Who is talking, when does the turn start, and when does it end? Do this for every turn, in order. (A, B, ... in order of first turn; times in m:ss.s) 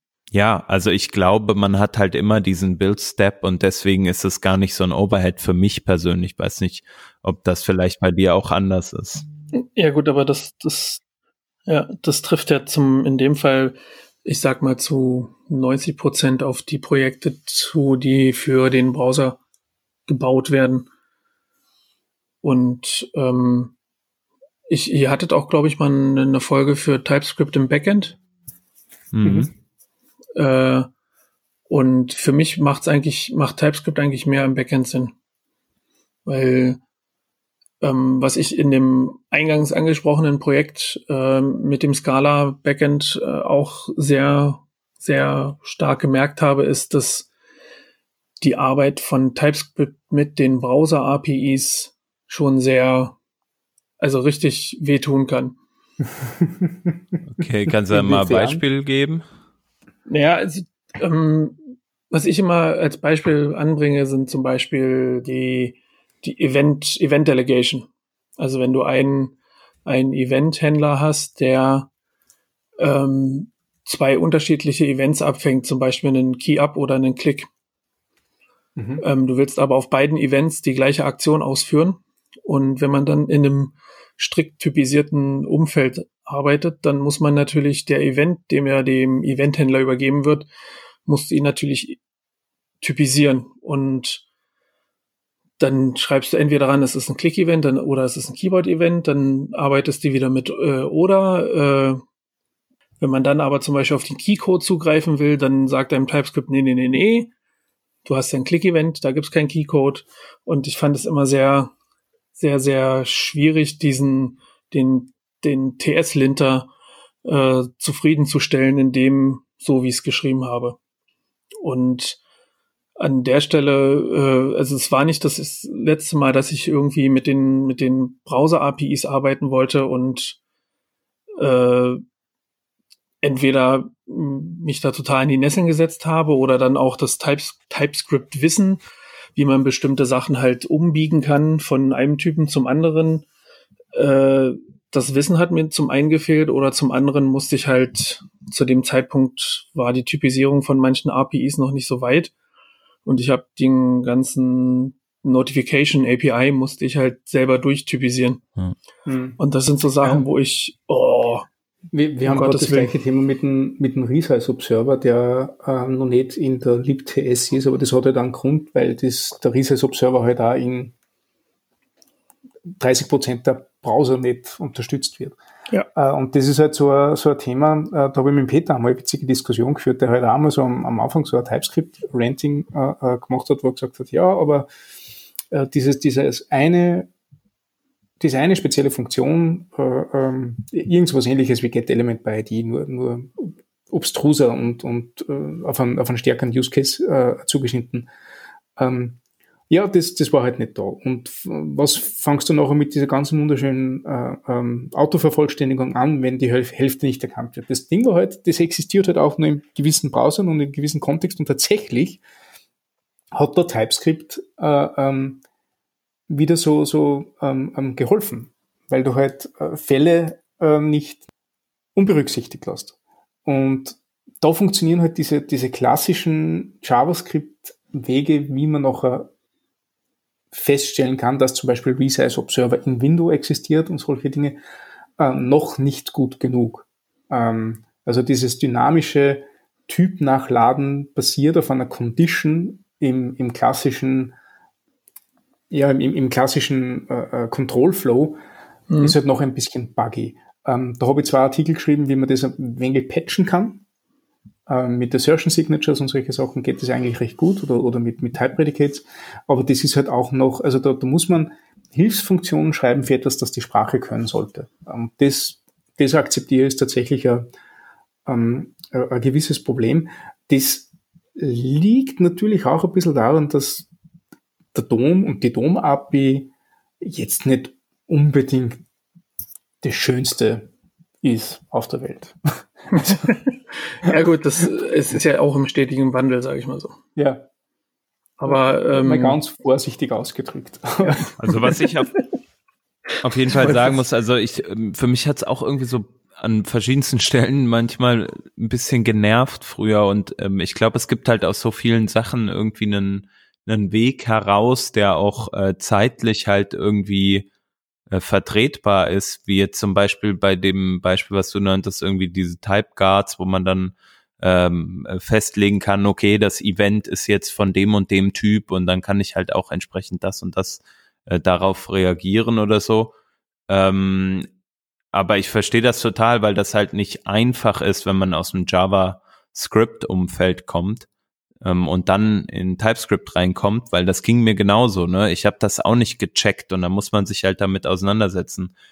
0:00.3-0:09.2 A
0:09.6-0:11.0 B
0:11.7-0:19.4 B
0:20.1-0:20.9 B
0:22.4-0:23.7 B
0:24.7-0:28.2 B
0:29.1-0:29.5 A
0:29.2-0:29.5 C
0:30.4-0:30.9 B
0:31.7-0:35.1 B
0:36.2-0:36.8 B
0:37.8-0:47.3 B
0:48.4-0:53.2 B
0:54.0-0:55.6 B
0:56.4-0:56.9 C
0:57.3-0:59.2 A
0:57.9-0:58.6 C
1:00.0-1:01.6 B
1:02.1-1:09.3 B
1:09.8-1:11.9 B
1:12.8-1:17.5 B
1:18.8-1:19.0 C
1:19.0-1:30.5 B
1:31.0-1:32.0 B
1:32.8-1:34.2 B
1:35.6-1:42.0 B
1:43.0-1:47.3 B
1:48.0-1:51.7 B
1:52.4-1:56.7 B
1:57.2-2:00.8 B
2:01.6-2:02.2 B
2:03.0-2:10.4 B
2:11.4-2:12.0 B
2:13.2-2:18.8 B
2:19.4-2:23.2 B
2:23.9-2:32.3 B
2:33.0-2:38.4 B
2:39.0-2:39.4 C
2:39.4-2:41.5 B
2:41.9-2:50.9 C
2:42.2-2:42.9 B
2:52.8-2:55.4 C
2:55.9-3:04.7 C
3:05.5-3:07.1 C
3:08.2-3:18.1 C
3:18.8-3:32.2 C
3:33.3-3:35.4 C
3:36.3-3:41.3 C
3:41.9-3:49.3 C
3:50.5-3:54.6 C
3:55.2-4:04.3 C
4:05.7-4:08.4 C
4:08.9-4:09.2 B
4:09.0-4:13.8 C
4:14.7-4:27.5 C
4:28.2-4:33.9 C
4:34.7-4:38.8 C
4:39.8-4:40.7 C
4:41.2-4:42.4 C
4:42.9-4:43.3 C
4:43.0-4:47.0 B
4:47.2-4:47.4 C
4:48.4-4:49.4 B
4:48.4-4:51.3 C
4:51.1-4:51.7 B
4:51.4-4:52.1 A
4:53.2-5:07.5 A
4:53.5-4:53.9 B
5:08.1-5:23.1 A
5:23.7-5:24.5 A
5:25.1-5:31.1 A
5:31.6-5:38.7 A